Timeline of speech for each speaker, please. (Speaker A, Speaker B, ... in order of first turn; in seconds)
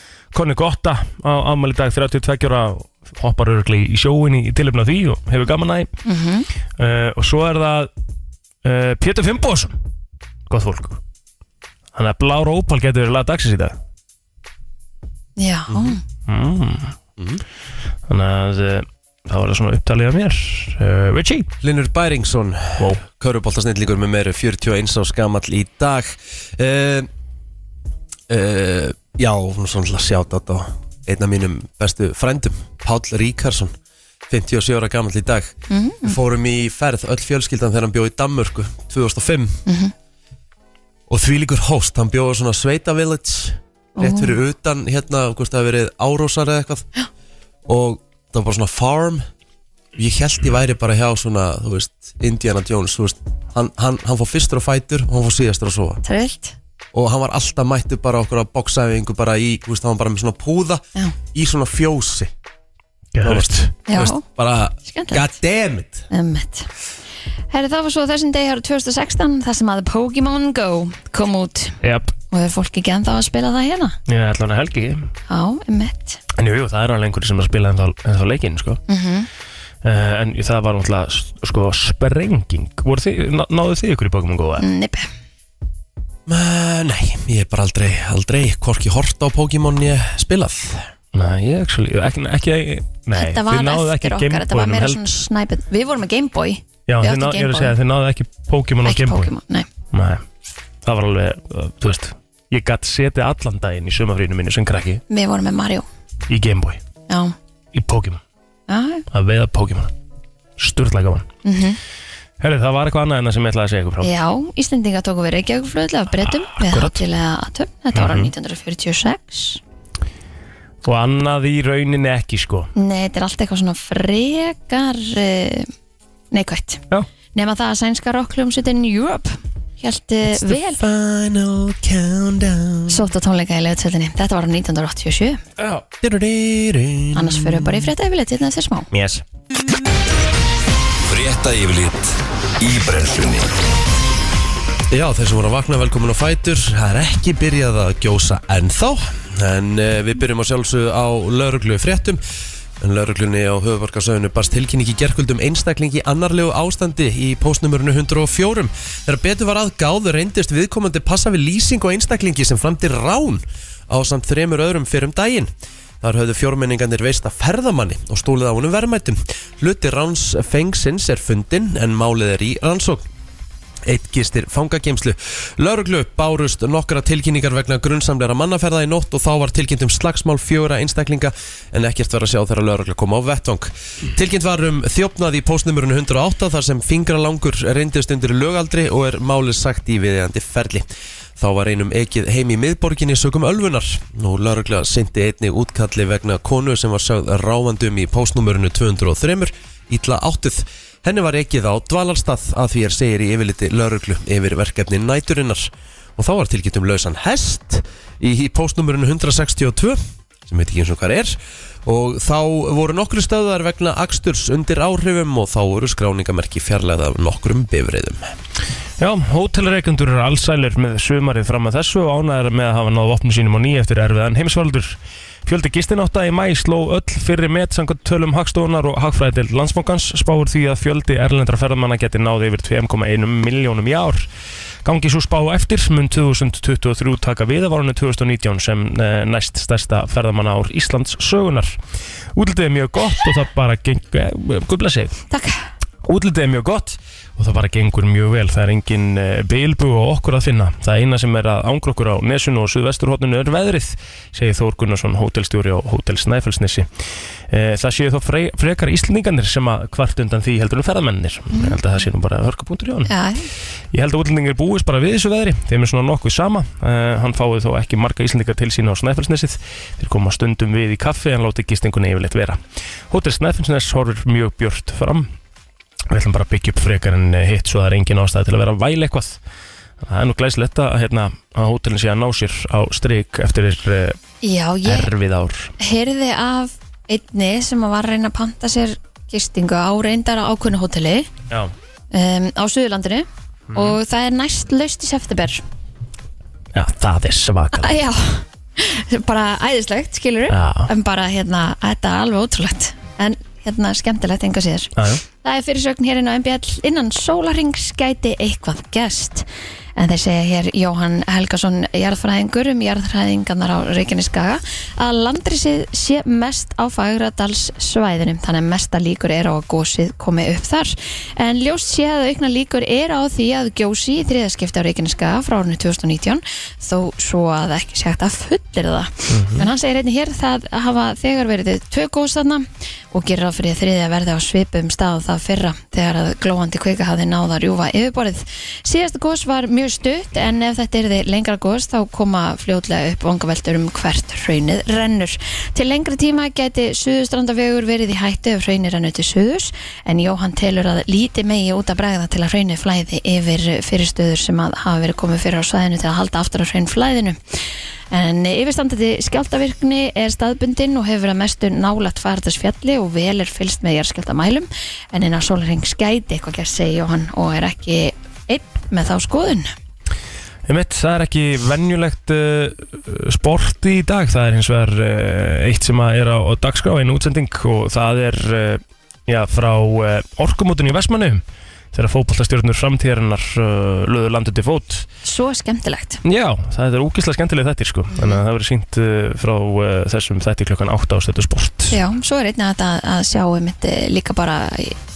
Speaker A: 0.3-5.9, 6.8-7.9, 8.6-9.7, 10.5-11.0, 11.9-13.8, 16.3-16.9, 18.1-21.5, 63.1-63.7, 71.8-72.1, 74.1-75.1, 76.3-78.8, 79.8-84.6, 91.1-95.2, 96.9-99.3, 99.9-100.2, 100.8-105.0, 106.3-106.8, 107.7-108.2, 109.1-109.9, 110.6-111.3, 112.4-114.1, 116.3-117.0, 117.9-118.3, 120.8-122.7, 135.6-135.8, 138.9-139.2, 219.0-234.3, 234.8-241.8, 242.3-245.2, 246.0-256.9, 257.5-263.1, 263.9-272.6, 273.1-275.3, 276.1-279.4, 280.0-284.2, 284.8-285.7, 293.7-294.0, 296.7-298.0, 300.5-300.9, 305.0-305.2, 329.3-329.7, 370.7-381.4, 381.9-385.1, 386.2-392.0
Speaker B: 6.0-6.5, 15.4-16.0, 35.7-36.2, 39.6-39.9, 44.0-44.4, 56.0-56.5, 63.9-64.2, 64.8-65.3, 66.1-66.7, 67.5-71.8, 72.3-74.0, 75.3-76.2, 78.9-79.3, 84.6-85.1, 93.1-97.7, 98.8-99.7, 105.1-105.8, 107.1-107.3, 108.7-109.0, 111.4-111.8, 114.0-119.6, 122.7-125.7, 126.3-126.8, 127.3-130.8, 132.9-135.4, 137.1-138.9, 245.3-245.7, 263.1-263.5, 284.4-285.1, 285.8-291.3, 292.1-295.6, 297.8-304.9, 305.4-357.4, 358.1-369.7, 385.2-386.2, 388.1-388.4, 391.9-394.9
Speaker C: 15.7-16.0, 17.2-17.4, 21.6-27.1, 28.3-33.8, 34.3-39.6, 41.1-46.8, 47.7-49.2, 50.0-56.0, 56.9-60.8, 61.3-62.3, 63.2-66.0, 86.3-90.9, 130.4-133.1, 136.0-137.9, 144.9-152.2, 152.8-173.1, 173.8-218.3
Speaker D: 141.1-143.5